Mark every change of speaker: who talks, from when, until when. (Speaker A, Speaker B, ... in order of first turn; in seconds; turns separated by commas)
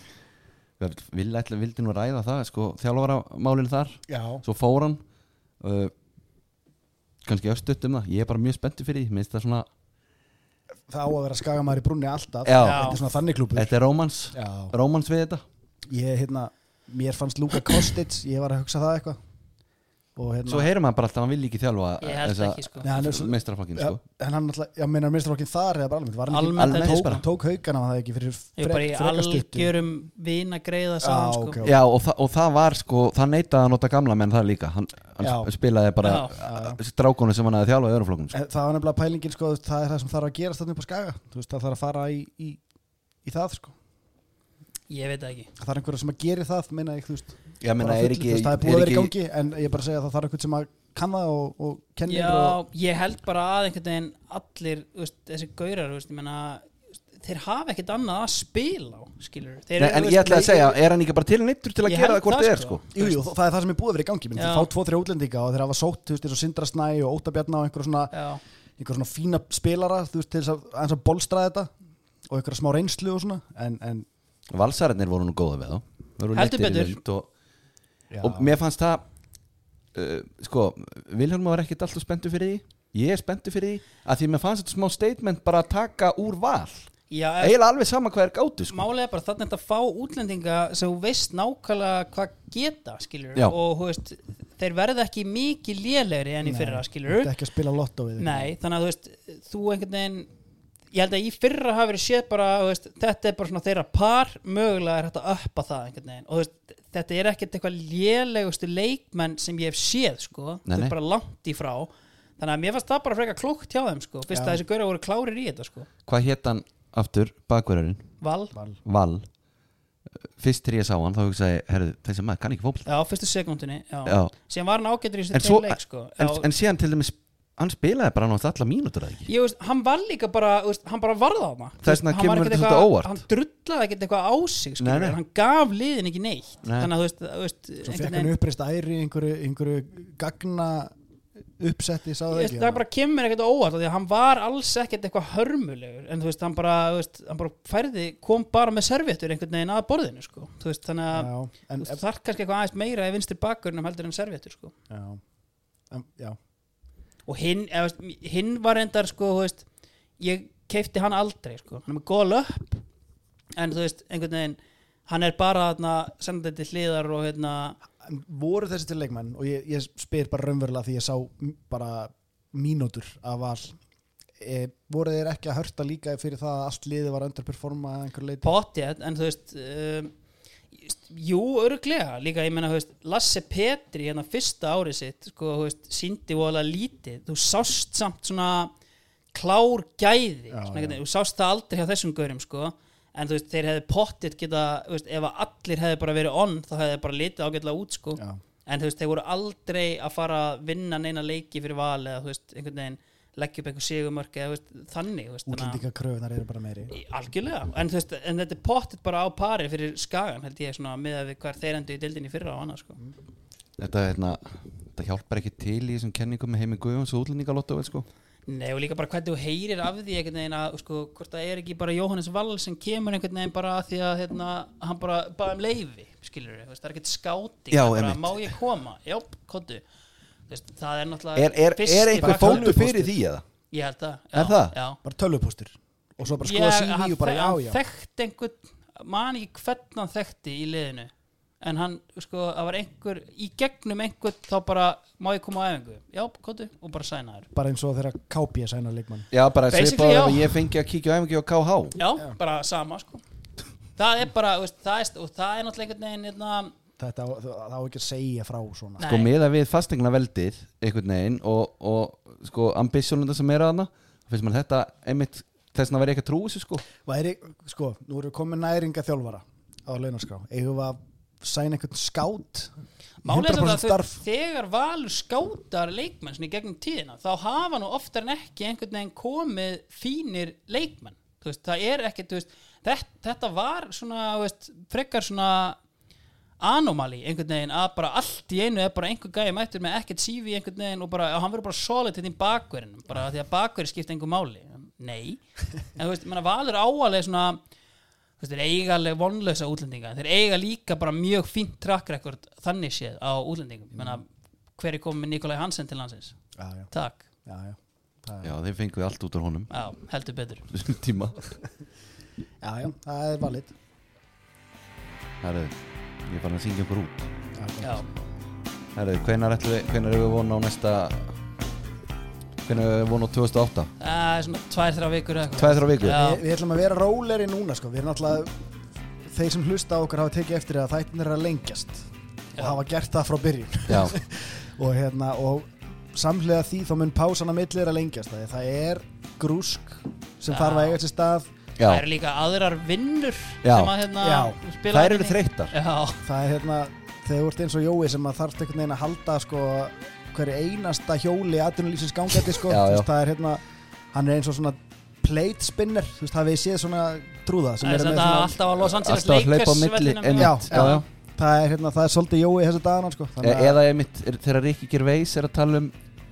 Speaker A: 0.8-5.0, Speaker B: 4.1-4.4, Speaker A: 5.6-5.9, Speaker A: 7.2-9.7, Speaker B: 10.9-13.7, Speaker A: 12.4-13.0, Speaker C: 12.6-13.0, Speaker A: 13.5-15.4, Speaker B: 14.3-14.7, Speaker B: 15.9-19.2, Speaker B: 20.1-20.7, Speaker A: 20.5-24.0, Speaker C: 22.0-22.9, Speaker B: 22.8-29.7, Speaker C: 26.3-27.2, Speaker A: 26.6-27.2, Speaker C: 28.6-31.6, Speaker B: 31.0-31.8, Speaker A: 31.6-38.4, Speaker B: 35.2-35.5, Speaker C: 36.0-36.3, Speaker B: 36.4-36.8, Speaker B: 38.3-42.6, Speaker B: 43.2-43.7, Speaker C: 44.9-45.5, Speaker B: 45.6-52.6, Speaker A: 47.6-49.1, Speaker C: 52.1-60.8, Speaker A: 59.8-62.8, Speaker C: 61.9-63.2, Speaker B: 62.9-68.1, Speaker C: 64.3-64.7, Speaker C: 68.1-68.4, Speaker B: 68.8-71.7, Speaker B: 72.3-74.1, Speaker A: 74.5-77.3, Speaker C: 76.3-77.0, Speaker B: 78.1-78.5, Speaker A: 78.2-79.0, Speaker A: 79.9-86.9, Speaker C: 87.1-87.6, Speaker A: 87.4-88.8, Speaker C: 88.7-97.3, Speaker B: 96.4-98.5, Speaker C: 98.2-100.3, Speaker C: 100.9-115.9, Speaker A: 110.7-111.0, Speaker B: 114.3-114.6, Speaker A: 116.1-118.1, Speaker C: 118.2-118.5, Speaker B: 118.5-118.8, Speaker A: 118.8-119.2, Speaker A: 120.4-122.9, Speaker C: 122.8-126.5, Speaker A: 124.0-124.3, Speaker A: 125.3-129.3, Speaker C: 129.2-138.3, Speaker A: 131.8-133.2, Speaker A: 134.8-135.2, Speaker A: 136.6-136.9, Speaker B: 137.8-140.9, Speaker B: 141.6-142.8, Speaker C: 142.3-154.7, Speaker B: 151.1-152.0, Speaker B: 154.9-155.2, Speaker B: 155.9-156.4, Speaker C: 157.2-159.6, Speaker C: 160.2-162.8, Speaker C: 163.6-167.8, Speaker B: 168.0-173.8, Speaker B: 174.4-178.5, Speaker C: 178.4-180.1, Speaker C: 180.7-188.7, Speaker C: 189.3-205.8, Speaker B: 190.5-191.0, Speaker B: 205.5-206.9, Speaker C: 206.9-213.0, Speaker A: 213.8-218.1, Speaker C: 218.5-229.8, Speaker A: 227.7-228.4, Speaker C: 230.5-232.8, Speaker A: 231.3-233.4, Speaker B: 232.2-233.1, Speaker C: 233.7-235.0, Speaker A: 234.3-234.8, Speaker B: 235.0-237.8, Speaker C: 236.4-247.5, Speaker B: 247.5-249.3, Speaker A: 249.3-252.0, Speaker C: 249.7-250.6, Speaker C: 252.0-253.2, Speaker C: 254.0-256.7, Speaker B: 257.0-259.0, Speaker C: 259.0-259.3, Speaker A: 259.1-266.8, Speaker B: 267.0-272.7, Speaker C: 273.2-285.8, Speaker B: 273.2-274.2, Speaker C: 286.6-295.4, Speaker C: 295.9-297.6, Speaker C: 298.4-304.2, Speaker B: 303.9-304.2, Speaker C: 304.8-306.4, Speaker B: 306.6-306.9, Speaker C: 306.9-307.2, Speaker B: 307.4-308.5, Speaker A: 308.4-309.7, Speaker C: 309.7-310.6, Speaker A: 310.7-311.5, Speaker B: 312.6-313.7, Speaker A: 315.4-315.7, Speaker A: 316.3-317.3, Speaker B: 317.5-318.1, Speaker A: 318.9-321.3, Speaker A: 322.6-323.9, Speaker C: 324.0-326.4, Speaker A: 325.6-326.2, Speaker B: 326.0-328.5, Speaker B: 329.2-332.1, Speaker C: 332.6-332.8, Speaker B: 332.6-341.5, Speaker A: 333.9-334.1, Speaker C: 340.5-341.0, Speaker A: 341.8-342.0, Speaker C: 341.8-346.3, Speaker A: 343.6-343.9, Speaker B: 344.2-344.6, Speaker A: 344.9-345.7, Speaker B: 346.2-358.6, Speaker A: 352.7-353.1, Speaker C: 357.8-361.0, Speaker A: 358.8-361.0, Speaker B: 360.4-363.8, Speaker A: 363.4-365.9